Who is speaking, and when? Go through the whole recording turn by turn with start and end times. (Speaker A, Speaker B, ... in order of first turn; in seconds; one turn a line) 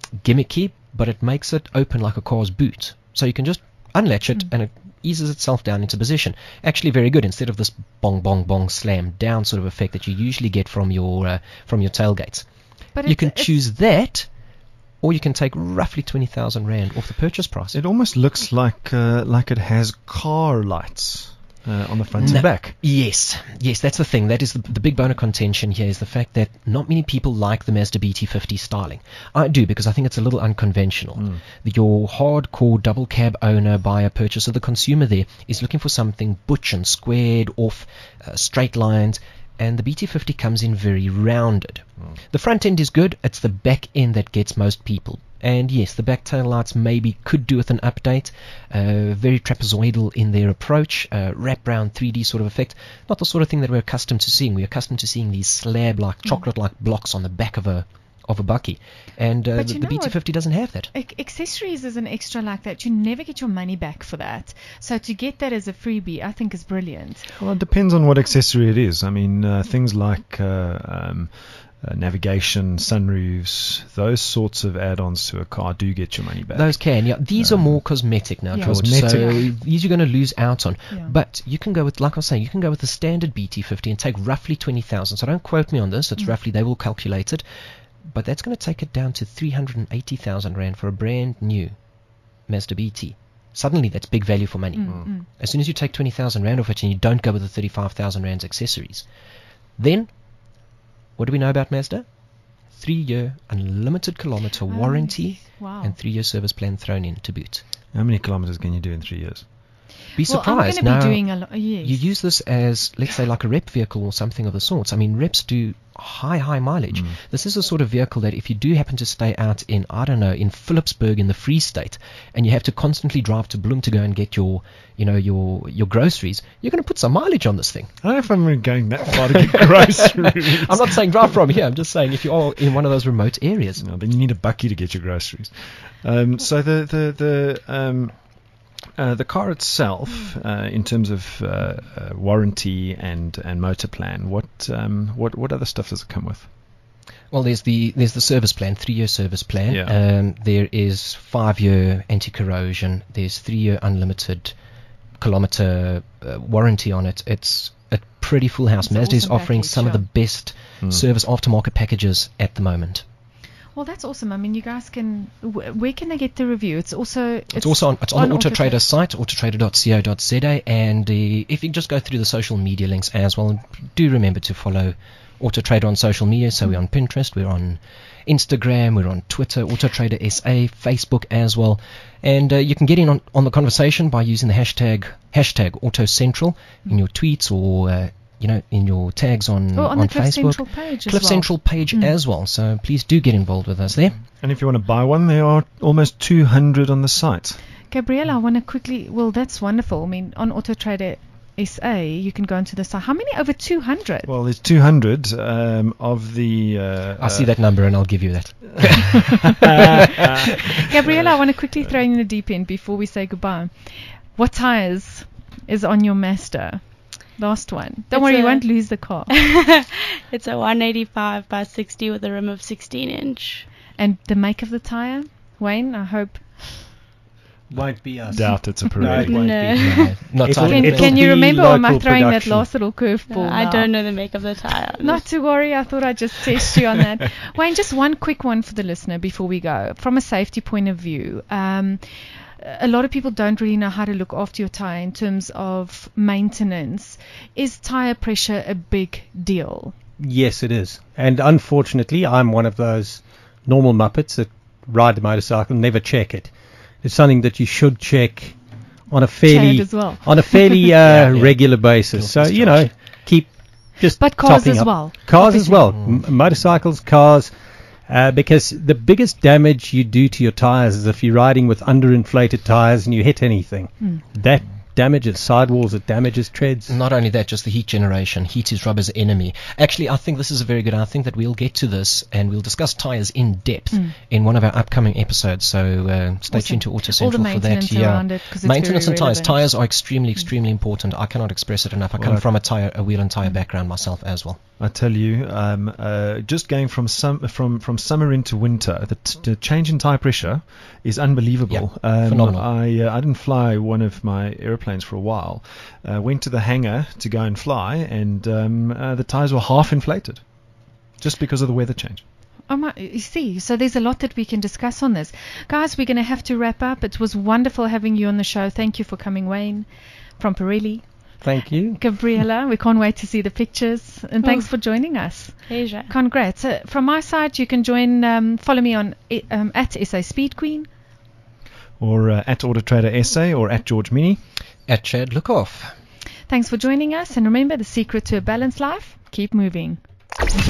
Speaker A: 0.2-12.5
Speaker B: 13.0-13.6
Speaker A: 13.0-14.3
Speaker A: 15.0-17.8
Speaker C: 17.7-22.8
Speaker A: 22.2-60.9
Speaker C: 31.2-31.4
Speaker B: 59.5-60.2
Speaker B: 60.9-67.3
Speaker C: 67.4-77.8
Speaker A: 76.5-87.4
Speaker B: 78.5-79.5
Speaker C: 78.6-79.5
Speaker A: 88.1-91.8
Speaker A: 92.5-99.1
Speaker B: 94.8-95.3
Speaker A: 99.8-100.1
Speaker A: 101.2-102.1
Speaker A: 102.7-107.6
Speaker B: 104.7-106.0
Speaker C: 107.9-109.5
Speaker A: 110.2-127.9
Speaker B: 110.2-112.0
Speaker C: 116.9-117.2
Speaker C: 128.0-131.3
Speaker A: 129.2-133.8
Speaker C: 133.8-138.2
Speaker C: 138.9-146.5
Speaker A: 147.3-154.5
Speaker C: 149.7-149.9
Speaker A: 155.2-163.1
Speaker B: 158.8-160.1
Speaker B: 163.8-168.8
Speaker A: 167.5-194.2
Speaker B: 189.8-192.1
Speaker C: 194.4-197.6
Speaker B: 197.9-204.3
Speaker C: 204.3-207.5
Speaker A: 207.2-210.4
Speaker C: 208.8-211.4
Speaker B: 210.9-219.3
Speaker D: 218.1-218.7
Speaker D: 219.3-223.7
Speaker B: 224.0-226.9
Speaker E: 227.7-232.7
Speaker C: 227.8-230.0
Speaker B: 228.3-228.8
Speaker D: 229.2-230.2
Speaker A: 229.8-231.2
Speaker B: 230.6-233.9
Speaker D: 233.3-235.2
Speaker B: 235.0-249.9
Speaker E: 250.2-258.6
Speaker E: 259.1-267.5
Speaker B: 259.4-260.9
Speaker A: 261.0-262.9
Speaker B: 264.2-265.9
Speaker A: 265.9-266.2
Speaker E: 268.1-276.9
Speaker A: 276.9-294.6
Speaker B: 286.5-289.6
Speaker C: 294.8-310.4
Speaker A: 301.7-302.7
Speaker C: 311.2-312.2
Speaker B: 312.7-321.4
Speaker E: 321.4-322.0
Speaker B: 322.0-330.9
Speaker D: 324.4-324.7
Speaker D: 325.7-326.1
Speaker C: 332.0-334.4
Speaker A: 334.9-335.9
Speaker B: 336.5-340.0